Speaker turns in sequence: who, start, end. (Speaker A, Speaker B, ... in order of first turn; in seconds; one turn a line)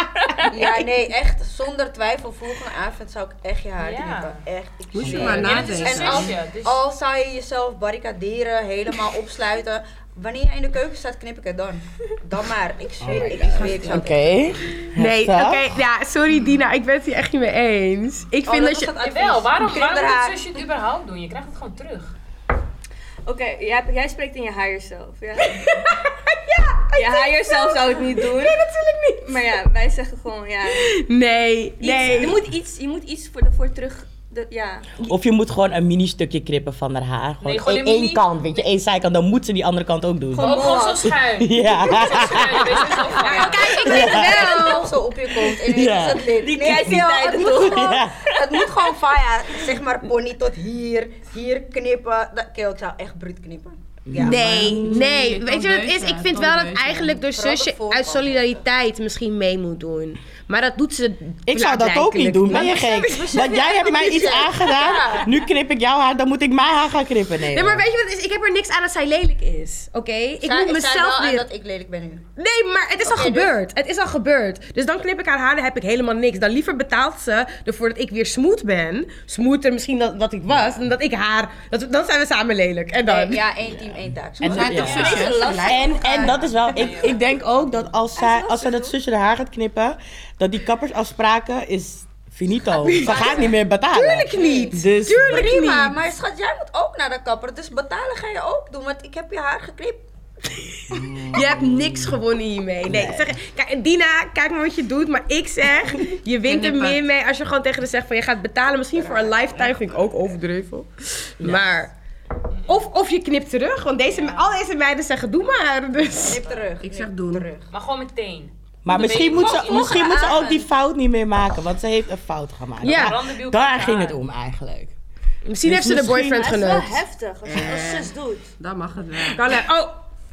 Speaker A: 0.2-0.5
Speaker B: 0.5-14.3
Speaker C: 3.8-4.4
Speaker D: 5.0-5.6
Speaker E: 5.0-6.3
Speaker C: 5.0-6.8
Speaker D: 13.0-15.8
Speaker E: 13.3-13.8
Speaker F: 13.3-14.1
Speaker F: 14.9-18.9
Speaker B: 18.4-20.5
Speaker C: 19.0-22.1
Speaker A: 23.2-25.8
Speaker F: 26.5-29.3
Speaker A: 26.9-28.6
Speaker A: 29.2-30.9
Speaker F: 30.8-32.4
Speaker A: 31.8-35.0
Speaker D: 35.0-40.6
Speaker C: 37.4-38.6
Speaker A: 40.4-41.1
Speaker C: 40.4-43.8
Speaker B: 40.5-41.0
Speaker D: 41.3-43.1
Speaker F: 43.2-44.9
Speaker B: 43.2-54.4
Speaker A: 43.3-45.0
Speaker D: 43.8-44.9
Speaker D: 45.4-48.1
Speaker A: 46.3-49.0
Speaker D: 54.1-55.1
Speaker F: 54.2-63.6
Speaker E: 54.2-57.2
Speaker B: 57.3-58.6
Speaker D: 61.5-67.8
Speaker B: 62.5-65.3
Speaker F: 67.5-71.5
Speaker B: 70.4-72.3
Speaker F: 72.4-83.5
Speaker B: 73.0-73.6
Speaker B: 83.0-84.9
Speaker D: 84.4-95.6
Speaker E: 84.4-86.4
Speaker C: 84.8-85.3
Speaker A: 84.8-86.2
Speaker F: 85.3-86.3
Speaker C: 86.5-87.2
Speaker B: 88.2-88.9
Speaker F: 92.8-96.0
Speaker B: 92.9-93.5
Speaker B: 95.1-100.0
Speaker D: 100.9-102.2
Speaker F: 101.2-111.9
Speaker D: 102.8-103.3
Speaker E: 106.4-107.0
Speaker B: 109.0-109.3
Speaker F: 112.7-116.4
Speaker C: 114.1-114.6
Speaker B: 116.2-117.7
Speaker E: 116.8-117.4
Speaker C: 117.7-120.3
Speaker D: 118.8-124.9
Speaker A: 119.5-120.6
Speaker B: 120.1-120.3
Speaker F: 122.8-123.2
Speaker C: 122.8-124.2
Speaker F: 125.4-127.0
Speaker D: 125.6-126.5
Speaker A: 126.2-128.5
Speaker E: 127.5-129.6
Speaker F: 129.3-130.0